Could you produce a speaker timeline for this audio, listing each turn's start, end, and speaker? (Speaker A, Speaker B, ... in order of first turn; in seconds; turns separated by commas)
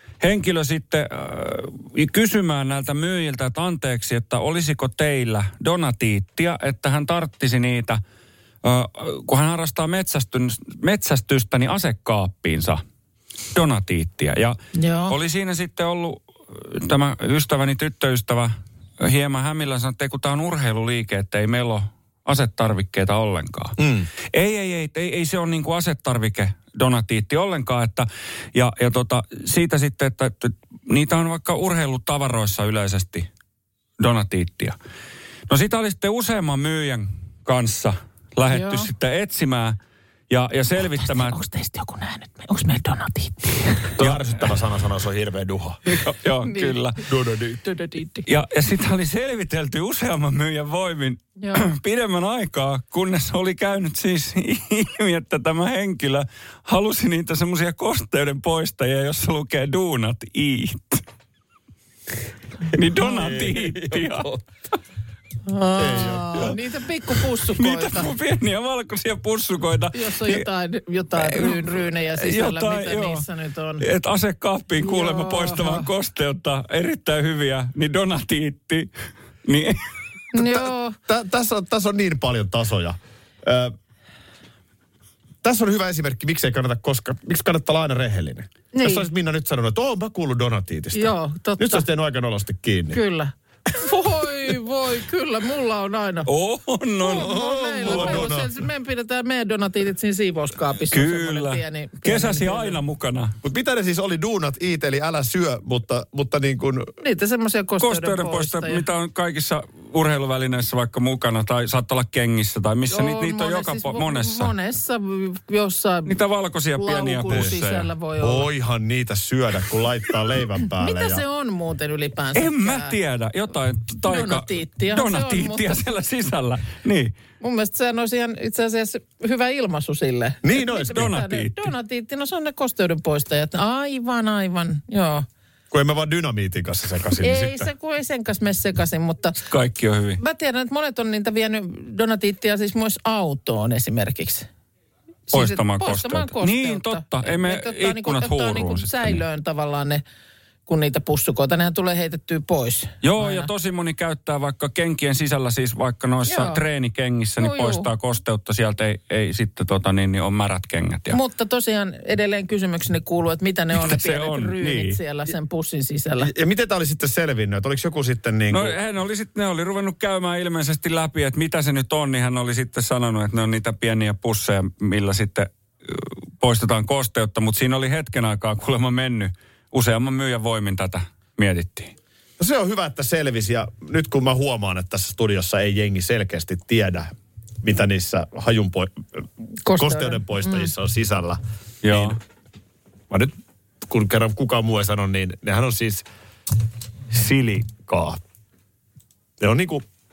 Speaker A: 0.2-8.0, Speaker A: 8.6-12.8, Speaker A: 13.5-14.6, Speaker B: 14.7-15.1, Speaker A: 15.1-23.8, Speaker C: 23.8-24.1, Speaker A: 24.3-33.3, Speaker A: 34.0-34.8, Speaker A: 35.5-39.8, Speaker B: 38.5-38.9, Speaker A: 40.3-41.4, Speaker B: 40.8-43.9, Speaker C: 44.0-45.9, Speaker A: 45.9-47.0, Speaker B: 46.5-46.8, Speaker C: 47.1-47.6, Speaker B: 47.6-48.2, Speaker A: 48.2-61.0, Speaker B: 51.4-51.7, Speaker A: 62.7-64.3, Speaker C: 62.9-64.4, Speaker B: 65.5-68.1, Speaker C: 65.8-66.6, Speaker A: 67.5-70.5, Speaker B: 69.9-73.8, Speaker A: 71.1-73.2, Speaker A: 73.8-78.9, Speaker B: 74.8-75.9, Speaker A: 79.4-79.8, Speaker B: 80.3-81.0, Speaker C: 80.4-83.7, Speaker C: 85.4-93.0, Speaker B: 88.7-89.1, Speaker B: 90.9-91.8, Speaker B: 92.9-96.3, Speaker A: 96.3-98.3, Speaker B: 97.0-102.8, Speaker C: 97.1-98.5, Speaker A: 100.9-103.3, Speaker C: 103.4-106.9, Speaker B: 107.0-108.8, Speaker A: 107.8-114.5, Speaker B: 112.9-116.2, Speaker A: 116.0-117.9, Speaker B: 116.8-118.5, Speaker C: 117.3-117.5, Speaker C: 118.2-121.2, Speaker B: 120.8-122.9, Speaker A: 122.3-127.2, Speaker B: 124.0-125.8, Speaker B: 127.4-135.2, Speaker C: 130.4-131.1, Speaker A: 130.9-131.7, Speaker C: 135.7-137.7, Speaker B: 137.2-139.4, Speaker A: 139.5-140.2, Speaker B: 140.2-144.5, Speaker B: 145.3-150.0, Speaker A: 145.3-149.2, Speaker B: 150.7-153.5, Speaker A: 153.0-161.2, Speaker B: 156.3-156.6, Speaker B: 157.4-157.9, Speaker B: 161.1-166.3, Speaker A: 163.7-165.0, Speaker C: 166.2-168.8, Speaker A: 168.5-181.9, Speaker C: 182.4-189.2, Speaker B: 189.6-190.7, Speaker C: 189.7-192.2, Speaker A: 191.8-192.2, Speaker C: 193.1-196.0, Speaker C: 197.1-198.2, Speaker C: 199.4-199.8